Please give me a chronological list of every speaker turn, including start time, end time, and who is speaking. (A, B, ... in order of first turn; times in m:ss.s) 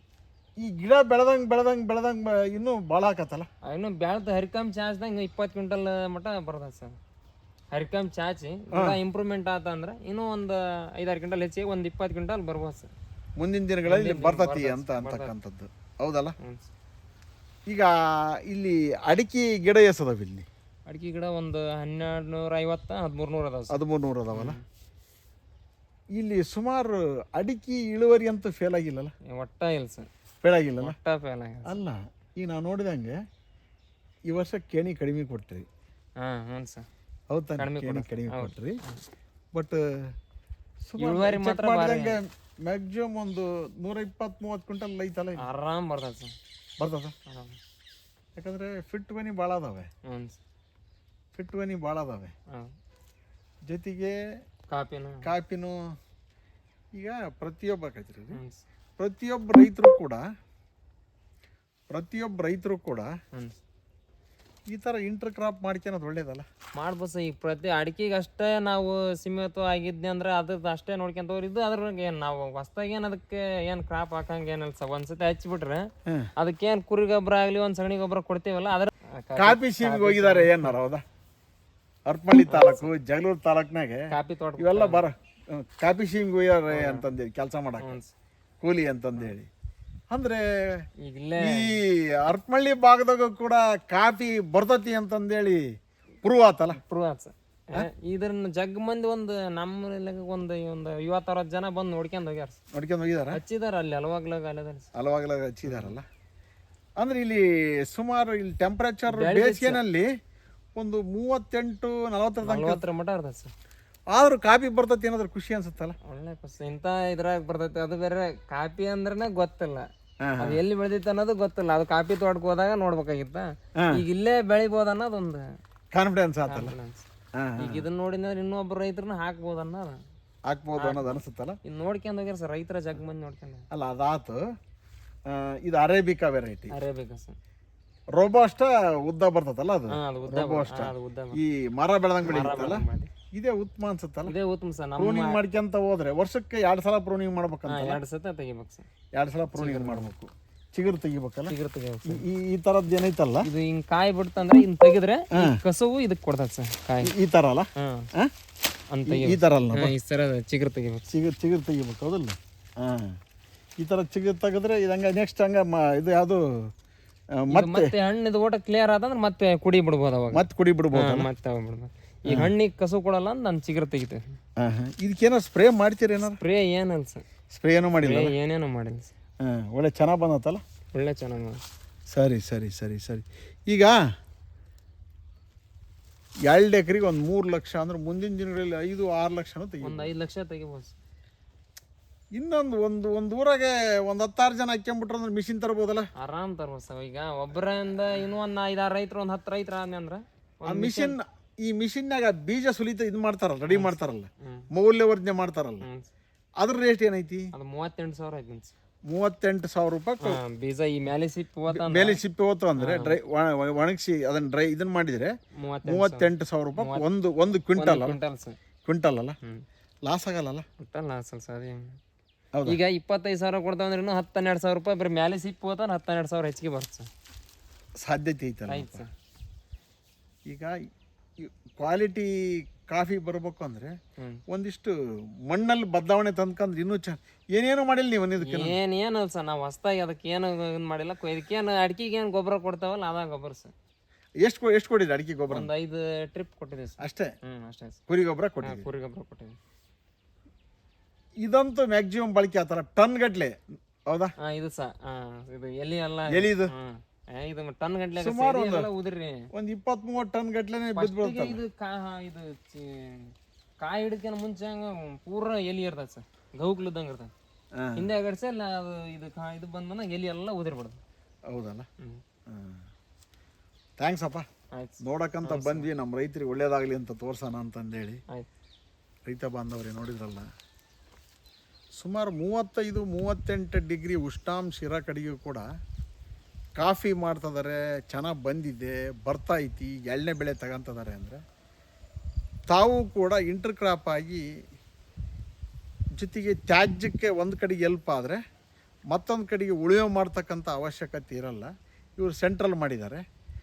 0:00.6-0:03.5 A
0:03.7-0:07.0 B
0:07.7-0:12.9 B
0:13.4-0:16.4 A
0:13.9-0:15.3 B
0:16.4-0:16.7 B
0:17.7-0:20.5 A
0:20.9-0:23.8 B
0:23.7-0:24.6 A
0:24.3-0:24.6 B
0:26.2-0:29.1 A
0:29.3-0:30.1 B
0:30.4-0:31.0 A
0:30.8-0:31.8 B
0:31.7-0:33.1 A
0:34.3-0:35.7 A
0:36.2-0:36.9 B
0:37.3-0:38.8 A
0:37.6-0:39.0 B
0:39.5-0:39.8 A
0:40.9-0:45.4 A
0:41.0-0:42.2 B
0:45.4-0:46.3 B
0:46.8-0:47.1 A
0:47.3-0:47.6 B
0:48.4-0:49.9 A
0:50.1-0:50.4 B
0:51.4-0:52.3 A
0:53.7-0:54.2 A
0:54.7-0:55.3 B
0:55.2-0:55.9 A
0:57.0-0:58.4 A
0:58.3-0:58.6 B
0:59.0-1:00.2 A
1:01.9-1:03.1 A
1:04.7-1:06.5 A
1:06.8-1:15.9 B
1:16.4-1:20.7 B
1:19.4-1:21.0 A
1:22.1-1:24.1 A
1:22.4-1:22.9 B
1:24.1-1:25.0 B
1:24.6-1:28.0 A
1:26.7-1:27.1 B
1:27.8-1:28.1 B
1:28.6-1:29.5 A
1:30.1-1:30.8 A
1:31.0-1:31.8 B
1:31.4-1:35.6 A
1:36.2-1:36.8 A
1:36.7-1:42.6 B
1:42.7-1:43.4 A
1:43.3-1:44.9 B
1:45.0-1:46.0 A
1:45.6-1:46.0 B
1:47.0-1:50.1 A
1:49.1-1:49.8 B
1:50.8-1:52.8 A
1:52.4-1:53.5 B
1:54.1-1:56.0 A
1:56.0-1:59.9 B
2:00.2-2:00.6 A
2:00.4-2:05.6 B
2:03.8-2:04.0 A
2:05.9-2:06.8 A
2:06.5-2:07.0 B
2:07.4-2:07.9 A
2:07.6-2:10.0 B
2:10.5-2:11.6 A
2:10.8-2:13.6 B
2:13.7-2:14.4 A
2:15.3-2:16.8 A
2:16.7-2:17.4 B
2:18.2-2:24.3 A
2:19.9-2:21.4 B
2:22.2-2:23.1 B
2:24.3-2:25.4 B
2:25.0-2:28.0 A
2:27.7-2:28.9 B
2:29.2-2:31.5 A
2:29.6-2:30.1 B
2:31.5-2:32.2 B
2:32.1-2:33.5 A
2:33.4-2:37.1 B
2:35.3-2:35.6 A
2:37.0-2:38.3 A
2:37.8-2:38.1 B
2:38.9-2:41.1 B
2:39.1-2:40.0 A
2:41.1-2:43.2 A
2:43.8-2:46.7 A
2:47.4-2:47.9 A
2:47.5-2:54.4 B
2:50.3-2:51.3 A
2:52.3-2:52.5 A
2:54.6-2:56.4 A
2:56.2-2:57.2 B
2:57.5-2:58.3 A
2:58.0-2:59.1 B
2:59.4-3:00.6 A
3:00.9-3:01.6 B
3:02.1-3:04.0 A
3:06.5-3:10.1 A
3:09.8-3:11.0 B
3:12.4-3:16.1 A
3:16.2-3:21.2 B
3:20.6-3:25.9 A
3:23.7-3:24.7 B
3:25.8-3:26.1 B
3:26.6-3:27.5 A
3:27.5-3:28.7 B
3:29.1-3:30.4 A
3:30.2-3:32.2 B
3:31.7-3:35.3 A
3:32.8-3:33.2 B
3:35.6-3:37.1 B
3:35.8-3:38.2 A
3:37.8-3:38.6 B
3:38.8-3:39.4 A
3:40.1-3:40.7 A
3:40.8-3:42.0 B
3:42.5-3:42.8 A
3:42.7-3:47.1 B
3:48.0-3:49.0 A
3:48.7-3:49.1 B
3:50.5-3:50.7 A
3:51.4-3:53.9 A
3:54.2-3:54.4 B
3:54.5-3:55.0 A
3:55.5-3:58.8 A
3:58.4-4:03.7 B
4:04.4-4:05.7 A
4:05.5-4:08.0 B
4:07.0-4:07.3 A
4:08.1-4:08.9 A
4:08.6-4:09.6 B
4:11.4-4:14.3 A
4:14.4-4:19.5 B
4:16.3-4:16.7 A
4:18.2-4:18.9 A
4:19.5-4:21.6 A
4:21.0-4:27.3 B
4:27.8-4:28.1 A
4:28.0-4:31.0 B
4:31.5-4:31.9 A
4:32.5-4:32.9 A
4:34.0-4:34.5 A
4:34.7-4:35.9 B
4:35.0-4:38.2 A
4:39.3-4:40.5 A
4:42.0-4:45.7 A
4:46.8-4:51.4 A
4:52.7-4:54.5 A
4:56.2-4:58.4 A
4:59.1-5:03.2 A